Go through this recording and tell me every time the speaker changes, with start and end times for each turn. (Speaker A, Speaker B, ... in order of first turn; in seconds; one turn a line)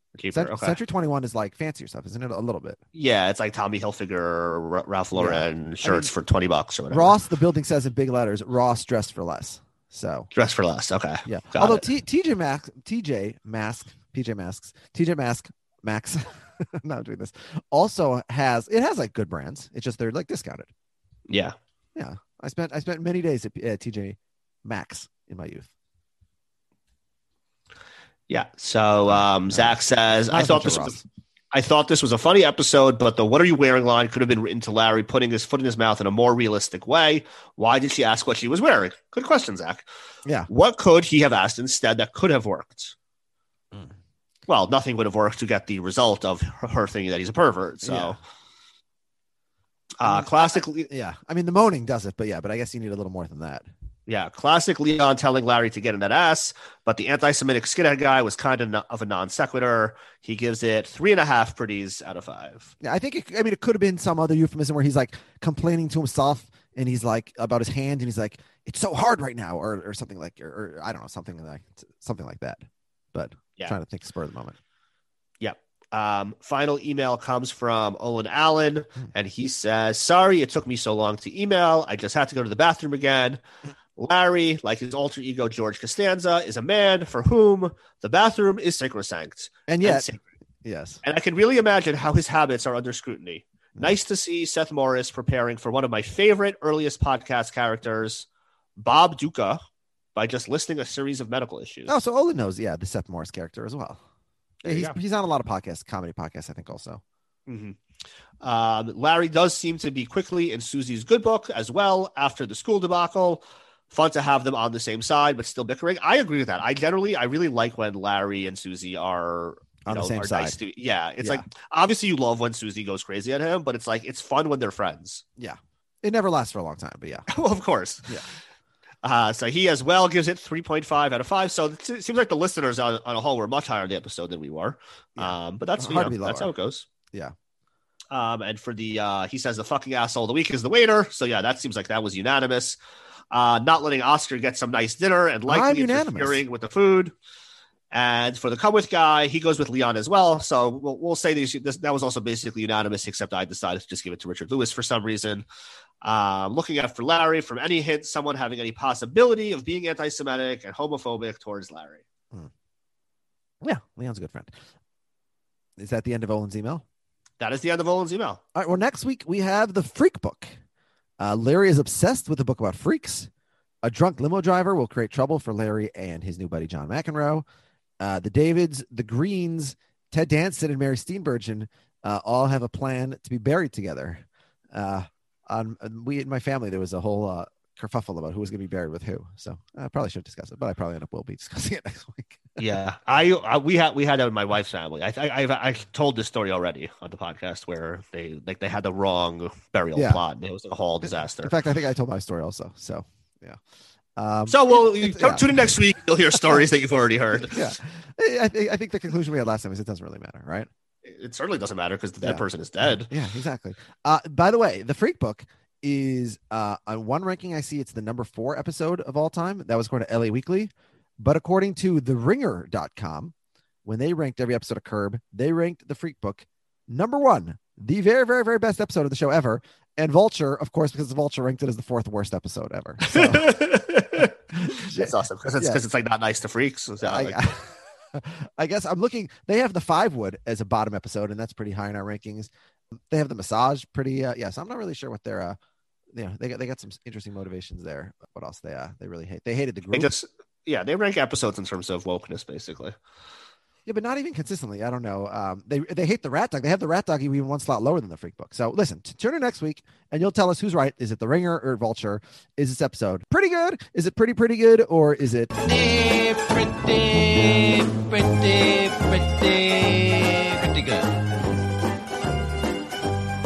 Speaker A: 0.1-0.8
Speaker B: 0.3-2.8
Speaker A: 2.9-7.2
Speaker B: 5.1-6.1
Speaker B: 6.9-10.3
Speaker A: 10.3-11.8
Speaker B: 11.2-20.7
Speaker A: 21.3-21.6
Speaker B: 21.9-25.7
Speaker A: 28.3-31.0
Speaker B: 29.1-29.8
Speaker B: 30.3-31.0
Speaker A: 31.5-39.8
Speaker A: 40.5-42.9
Speaker A: 44.5-48.2
Speaker B: 47.8-48.2
Speaker A: 50.0-50.9
Speaker B: 50.0-53.6
Speaker A: 54.1-62.7
Speaker B: 62.8-74.6
Speaker A: 75.4-83.4
Speaker A: 84.0-90.2
Speaker B: 89.7-90.0
Speaker B: 90.6-91.0
Speaker A: 91.0-98.3
Speaker A: 98.8-99.6
Speaker A: 100.1-101.9
Speaker B: 101.9-104.0
Speaker A: 104.6-105.0
Speaker B: 104.6-107.0
Speaker A: 107.5-107.8
Speaker A: 108.4-125.2
Speaker B: 119.8-120.6
Speaker B: 125.4-127.3
Speaker A: 127.3-128.3
Speaker A: 129.0-136.9
Speaker B: 135.2-136.5
Speaker A: 138.1-142.8
Speaker A: 143.3-147.1
Speaker B: 145.5-146.4
Speaker A: 147.9-155.4
Speaker A: 156.0-162.0
Speaker B: 163.6-164.5
Speaker B: 165.8-166.8
Speaker A: 167.4-168.4
Speaker B: 168.5-170.6
Speaker B: 171.2-173.3
Speaker B: 173.8-177.4
Speaker B: 178.0-192.6
Speaker A: 192.6-201.5
Speaker B: 199.9-200.2
Speaker B: 201.0-203.6
Speaker B: 204.2-205.8
Speaker A: 204.5-207.7
Speaker B: 206.3-206.6
Speaker B: 207.3-210.7
Speaker A: 211.0-213.1
Speaker B: 212.2-223.3
Speaker B: 223.8-233.5
Speaker A: 233.0-237.4
Speaker B: 234.1-235.8
Speaker B: 237.0-245.6
Speaker B: 246.1-250.1
Speaker A: 249.9-252.9
Speaker B: 253.8-265.5
Speaker C: 265.6-271.2